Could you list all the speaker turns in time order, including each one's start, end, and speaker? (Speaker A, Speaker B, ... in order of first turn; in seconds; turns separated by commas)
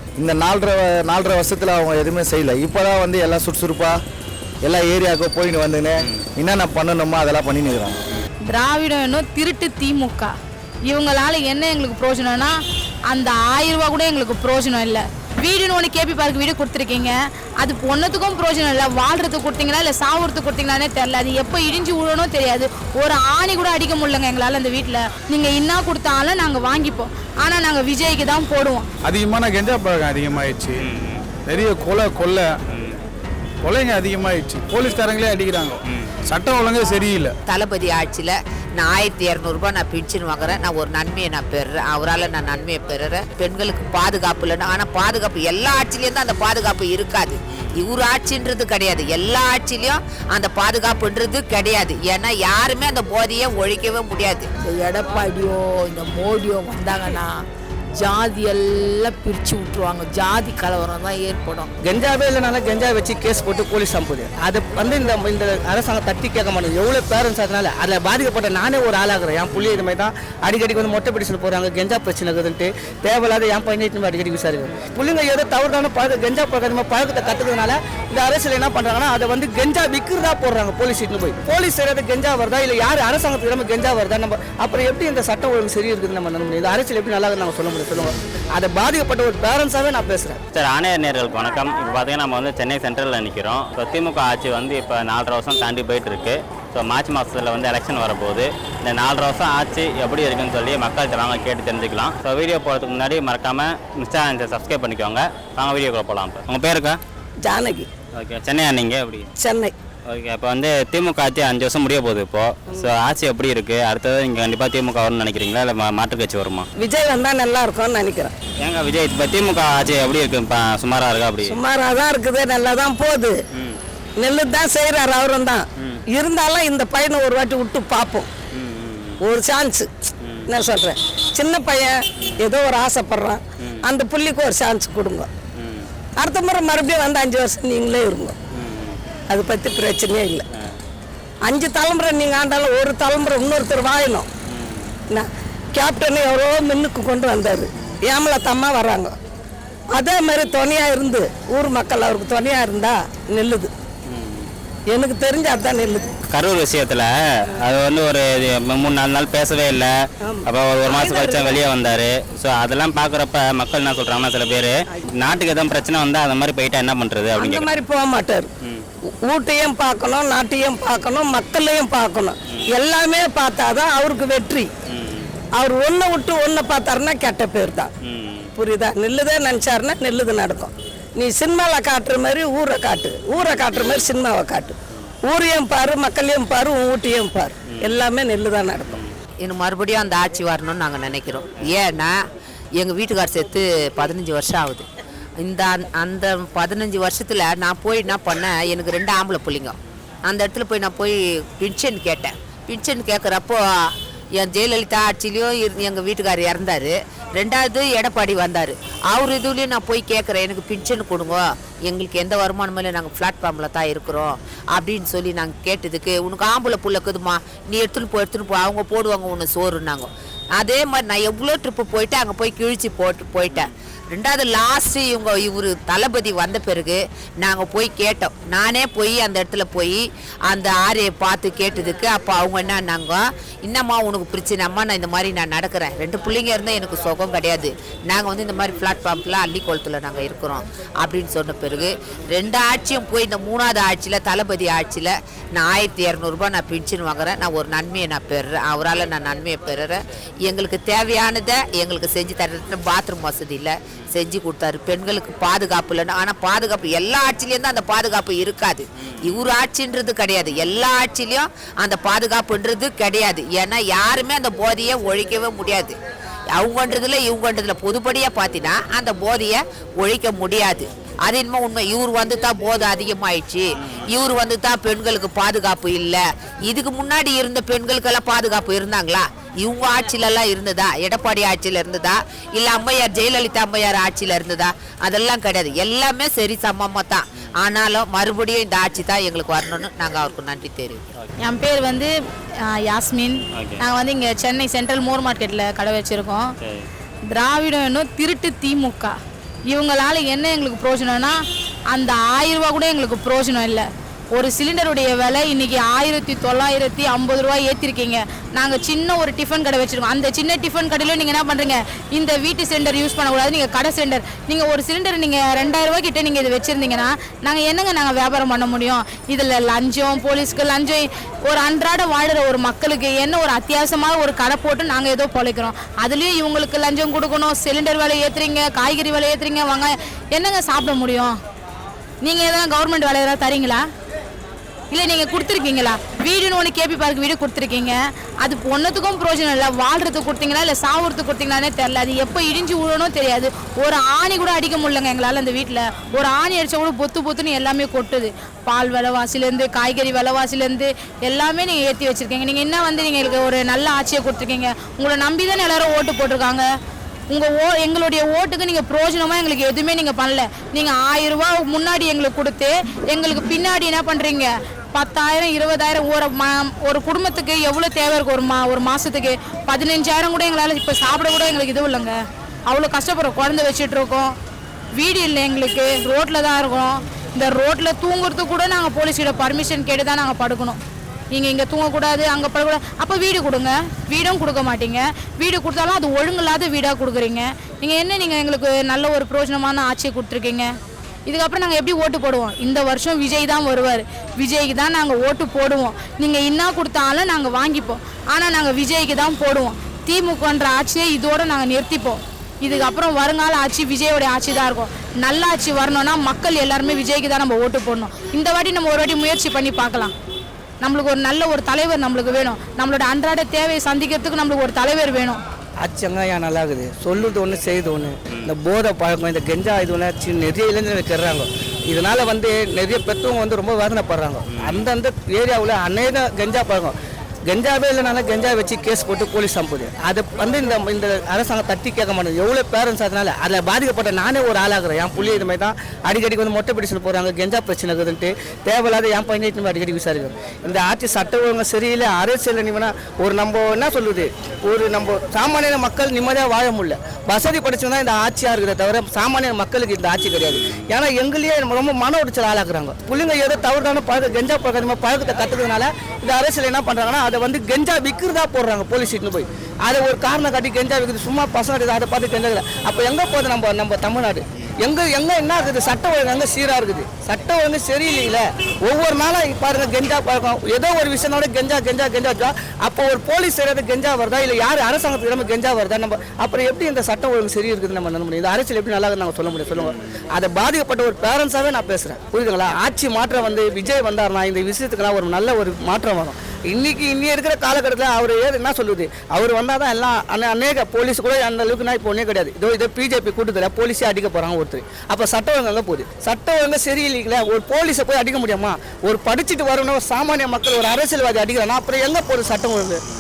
Speaker A: 0.2-4.0, Speaker A: 4.7-8.0, Speaker B: 8.5-10.3, Speaker B: 10.9-12.6, Speaker B: 13.1-28.9, Speaker C: 29.0-30.8, Speaker D: 30.8-31.2, Speaker C: 31.5-32.5, Speaker D: 32.7-33.0, Speaker C: 33.6-37.3, Speaker D: 35.9-36.1, Speaker E: 37.5-54.5, Speaker F: 54.6-57.4, Speaker F: 58.0-61.7, Speaker G: 61.8-90.4, Speaker D: 69.5-69.8, Speaker D: 90.5-107.0, Speaker H: 107.4-107.9, Speaker D: 108.2-109.3, Speaker H: 109.4-109.7, Speaker D: 110.1-116.7, Speaker H: 116.8-118.3, Speaker D: 118.6-121.6, Speaker H: 121.5-123.4, Speaker H: 124.2-128.3, Speaker D: 128.6-129.2, Speaker H: 129.2-129.9, Speaker D: 130.2-130.6, Speaker H: 130.5-135.3, Speaker D: 135.6-135.9, Speaker H: 136.2-138.3, Speaker D: 138.6-139.0, Speaker H: 139.3-140.4, Speaker H: 141.4-144.3, Speaker D: 144.5-144.9, Speaker H: 145.1-149.1, Speaker H: 149.9-153.7, Speaker D: 154.1-154.5, Speaker H: 154.9-156.0, Speaker D: 156.3-157.1, Speaker D: 157.6-159.9, Speaker H: 160.2-161.6, Speaker D: 160.4-167.8, Speaker H: 167.3-168.5, Speaker H: 169.3-174.7, Speaker D: 174.9-175.3, Speaker H: 175.6-177.9, Speaker D: 178.1-178.5, Speaker H: 178.6-188.9, Speaker D: 183.4-184.1, Speaker D: 187.7-188.0, Speaker E: 189.4-192.2, Speaker E: 192.8-194.9, Speaker E: 195.4-199.8, Speaker E: 200.3-266.0, Speaker E: 266.5-291.0, Speaker B: 291.4-292.1, Speaker B: 292.7-296.5, Speaker D: 293.6-293.8, Speaker D: 296.6-296.9, Speaker B: 297.3-299.1, Speaker B: 299.7-301.4, Speaker B: 301.9-331.4, Speaker B: 332.2-333.8, Speaker B: 334.9-356.7, Speaker B: 357.3-372.2, Speaker B: 372.7-374.3, Speaker B: 375.0-380.8, Speaker B: 381.3-390.7, Speaker B: 391.3-410.1, Speaker B: 410.8-415.4, Speaker G: 415.8-426.9, Speaker D: 424.5-424.9, Speaker G: 427.5-503.0, Speaker D: 435.2-435.5